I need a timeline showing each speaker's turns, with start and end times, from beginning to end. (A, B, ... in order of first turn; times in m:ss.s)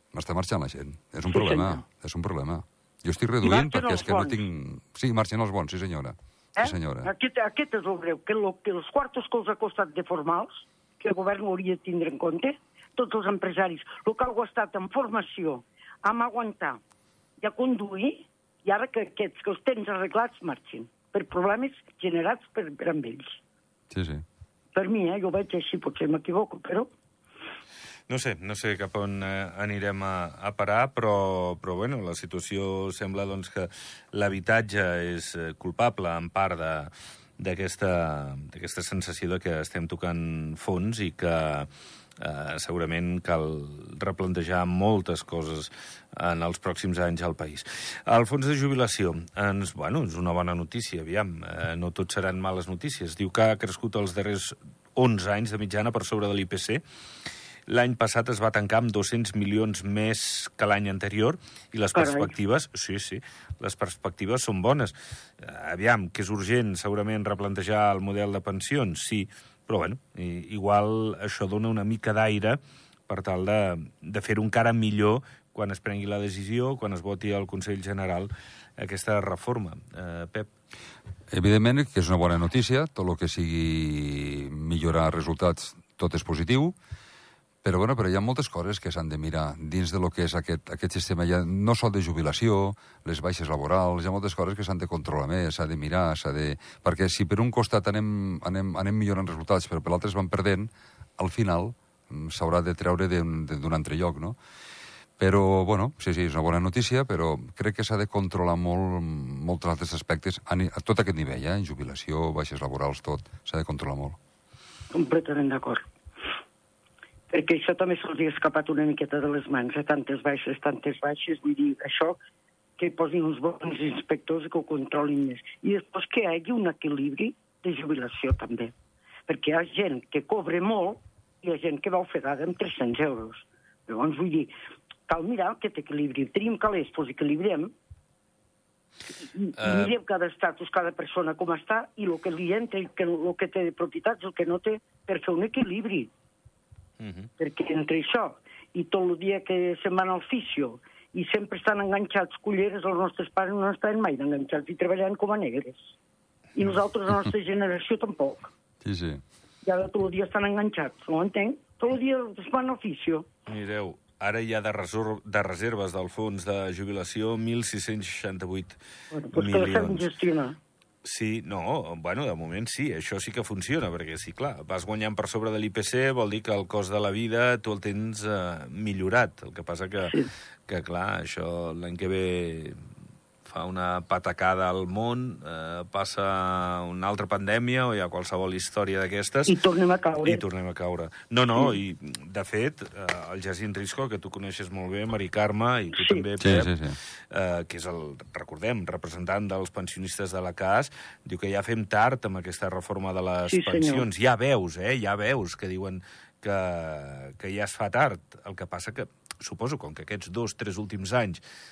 0:00.1-0:07.1 A
0:01.3-0:01.8 B
0:03.4-0:04.4 B
0:06.6-0:16.8 B
0:17.4-0:23.4 B
0:23.9-0:24.2 A
0:24.7-0:26.9 B
0:28.1-0:56.8 C
0:57.7-1:20.5 C
1:01.9-1:02.3 B
1:21.3-1:26.7 A
1:27.6-1:44.4 A
1:45.2-1:54.2 A
1:54.9-1:55.8 B
1:57.3-2:02.2 B
2:02.8-2:08.7 B
2:09.3-2:14.5 B
2:15.1-2:17.7 B
2:19.2-2:26.1 B
2:19.6-2:20.0 C
2:27.0-2:27.3 C
2:27.4-2:35.9 B
2:36.5-2:38.5 B
2:38.8-2:39.2 A
2:39.6-2:43.3 B
2:43.5-2:48.8 C
2:49.1-2:50.6 B
2:49.3-2:50.1 C
2:51.0-3:00.1 C
3:00.7-3:02.7 C
3:03.4-3:09.5 C
3:09.5-3:10.4 B
3:10.2-3:16.7 C
3:15.9-3:16.2 B
3:16.4-3:17.0 A
3:17.3-3:31.4 C
3:23.5-3:24.0 B